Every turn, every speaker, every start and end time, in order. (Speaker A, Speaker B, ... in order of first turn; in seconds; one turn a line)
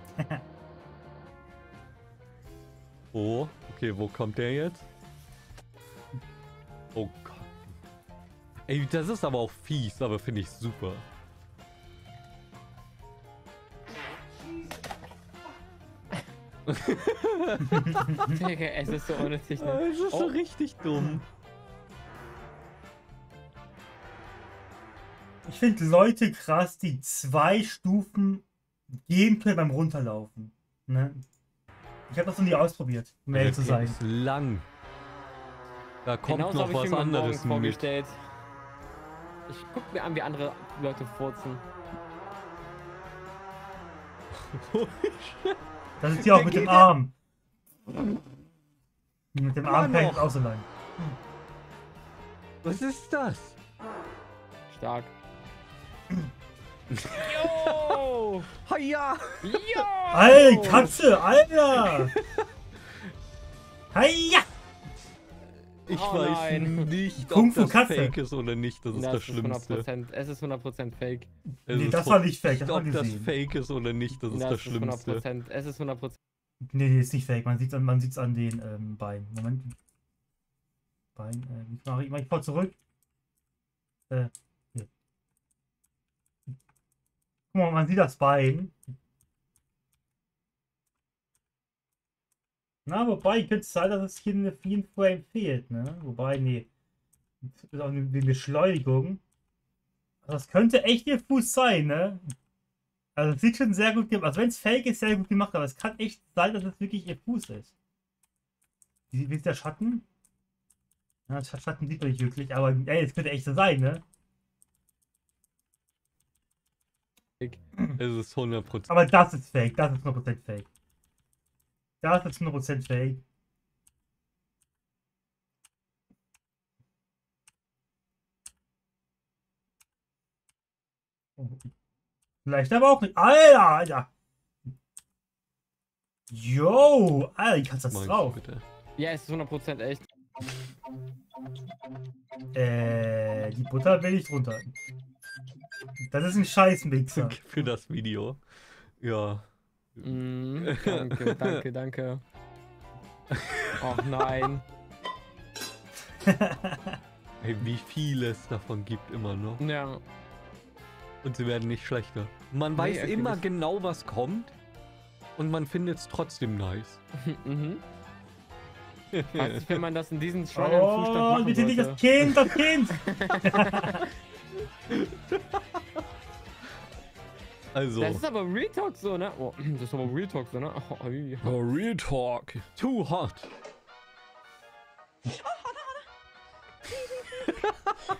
Speaker A: 3.1-4.9
Speaker A: 6.9-7.7
Speaker A: 8.7-11.0
Speaker A: 16.7-18.0
Speaker B: 17.7-18.3
Speaker C: 18.3-20.4
Speaker A: 19.6-21.2
Speaker B: 20.9-21.2
Speaker B: 25.5-28.4
Speaker B: 29.1-31.2
Speaker B: 32.1-34.0
Speaker A: 33.3-34.7
Speaker A: 36.0-37.9
Speaker C: 36.3-38.2
Speaker C: 39.5-41.6
Speaker A: 44.3-45.6
Speaker B: 46.0-47.1
Speaker A: 46.2-46.9
Speaker B: 49.4-50.7
Speaker A: 49.6-50.3
Speaker A: 52.6-53.6
Speaker C: 54.7-55.1
Speaker A: 56.9-57.9
Speaker C: 57.2-58.5
Speaker A: 58.6-59.8
Speaker C: 59.4-61.0
Speaker B: 60.1-62.1
Speaker A: 61.8-62.1
Speaker B: 63.9-64.5
Speaker A: 65.9-69.9
Speaker C: 65.9-66.9
Speaker B: 67.2-68.2
Speaker C: 68.9-71.3
Speaker B: 71.7-73.3
Speaker A: 71.7-75.2
Speaker C: 74.2-76.2
Speaker B: 76.7-79.8
Speaker B: 81.2-82.8
Speaker B: 84.1-84.9
Speaker B: 87.5-88.7
Speaker B: 92.9-96.7
Speaker B: 97.4-99.2
Speaker B: 100.2-102.2
Speaker B: 103.2-107.7
Speaker B: 109.1-110.0
Speaker B: 111.3-114.0
Speaker A: 118.0-118.9
Speaker B: 118.9-120.7
Speaker B: 122.0-123.2
Speaker B: 131.4-131.7
Speaker B: 132.4-134.1
Speaker B: 136.3-138.4
Speaker A: 137.9-138.6
Speaker C: 139.0-140.0
Speaker B: 142.5-144.7
Speaker B: 146.1-147.4
Speaker A: 147.1-148.4
Speaker A: 149.0-149.5
Speaker A: 150.0-151.6
Speaker C: 150.0-152.2
Speaker C: 153.8-154.6
Speaker B: 156.3-156.9
Speaker A: 157.4-159.6
Speaker C: 159.6-160.0
Speaker A: 161.2-164.5
Speaker C: 162.8-163.4
Speaker A: 165.4-167.0
Speaker C: 167.2-167.8
Speaker A: 169.1-169.8
Speaker C: 169.4-172.0
Speaker B: 170.6-173.0
Speaker C: 173.0-174.0
Speaker B: 173.6-174.0
Speaker A: 174.9-175.6
Speaker A: 177.7-178.2
Speaker C: 178.0-181.6
Speaker A: 181.4-183.5